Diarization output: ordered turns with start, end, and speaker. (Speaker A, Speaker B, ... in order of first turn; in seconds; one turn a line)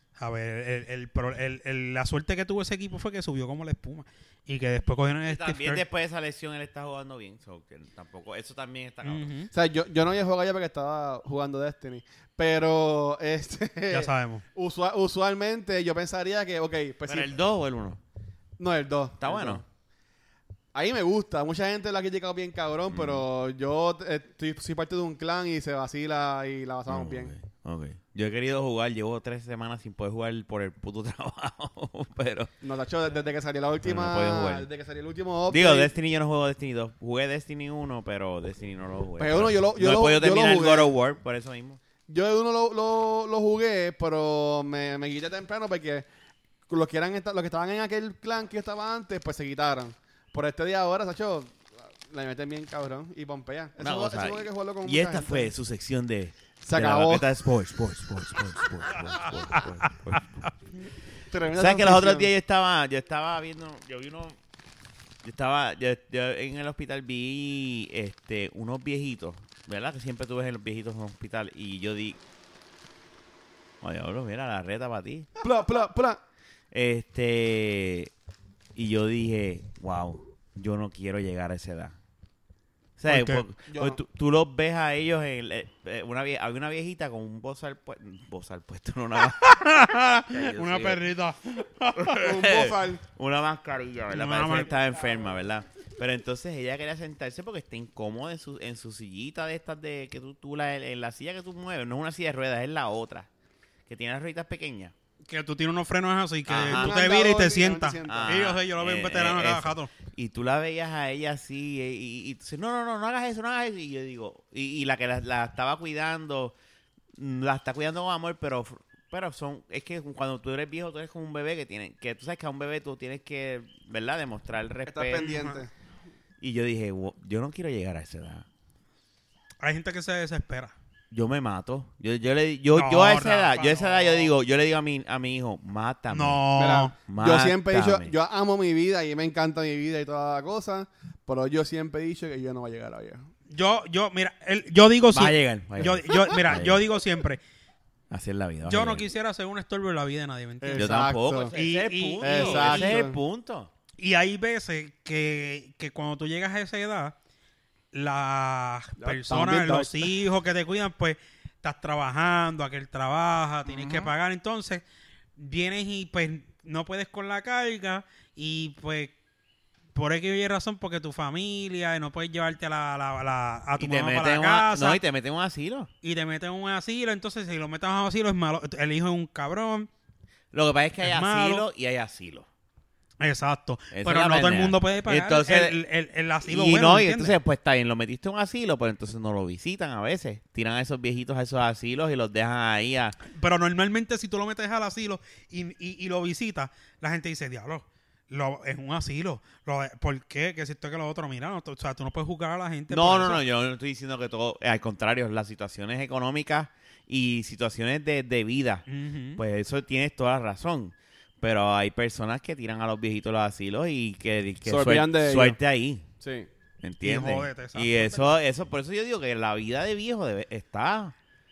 Speaker A: 0.2-5.8
Speaker B: 5.3-9.3
Speaker A: 9.0-9.5
Speaker C: 9.5-17.3
Speaker A: 13.9-14.4
Speaker B: 17.1-18.0
Speaker C: 18.6-19.6
Speaker B: 19.2-19.6
Speaker C: 20.7-27.3
Speaker B: 22.9-23.2
Speaker B: 26.9-32.5
Speaker C: 32.6-35.9
Speaker B: 33.8-34.7
Speaker B: 35.5-41.8
Speaker C: 39.2-40.9
Speaker C: 42.1-46.0
Speaker C: 46.7-55.5
Speaker B: 53.8-60.3
Speaker C: 56.6-57.3
Speaker A: 60.1-60.5
Speaker C: 61.3-62.3
Speaker B: 61.5-64.4
Speaker B: 65.2-72.2
Speaker B: 73.8-75.3
Speaker C: 75.4-76.2
Speaker B: 76.7-78.1
Speaker B: 78.8-82.0
Speaker B: 83.0-89.4
Speaker A: 83.1-83.4
Speaker C: 83.7-84.0
Speaker A: 89.3-92.5
Speaker B: 90.3-91.0
Speaker B: 92.0-103.3
Speaker C: 92.2-93.0
Speaker A: 94.1-94.7
Speaker B: 103.9-104.9
Speaker A: 105.3-109.9
Speaker B: 106.5-107.0
Speaker C: 106.6-108.4
Speaker B: 108.0-116.5
Speaker B: 117.2-125.3
Speaker C: 124.9-125.7
Speaker A: 125.2-125.6
Speaker B: 126.4-128.4
Speaker A: 129.6-130.7
Speaker B: 131.1-136.4
Speaker A: 132.8-134.3
Speaker A: 136.1-136.9
Speaker C: 136.6-143.3
Speaker B: 137.1-138.1
Speaker A: 143.5-147.4
Speaker B: 145.1-146.8
Speaker B: 148.1-149.1
Speaker A: 148.6-153.0
Speaker C: 150.6-151.5
Speaker B: 150.8-153.7
Speaker C: 152.2-153.2
Speaker A: 154.0-157.1
Speaker A: 157.9-164.8
Speaker C: 159.0-160.1
Speaker B: 163.7-164.1
Speaker A: 165.4-169.1
Speaker A: 169.9-175.0
Speaker B: 173.8-175.9
Speaker A: 176.0-179.9
Speaker B: 180.5-182.4
Speaker A: 181.0-181.6
Speaker A: 183.2-187.3
Speaker B: 183.9-185.8
Speaker B: 186.4-193.2
Speaker A: 193.3-203.4
Speaker B: 202.9-208.8
Speaker A: 208.9-209.4
Speaker B: 209.4-216.0
Speaker C: 214.6-215.6
Speaker C: 216.2-216.5
Speaker B: 216.8-221.1
Speaker A: 217.0-218.3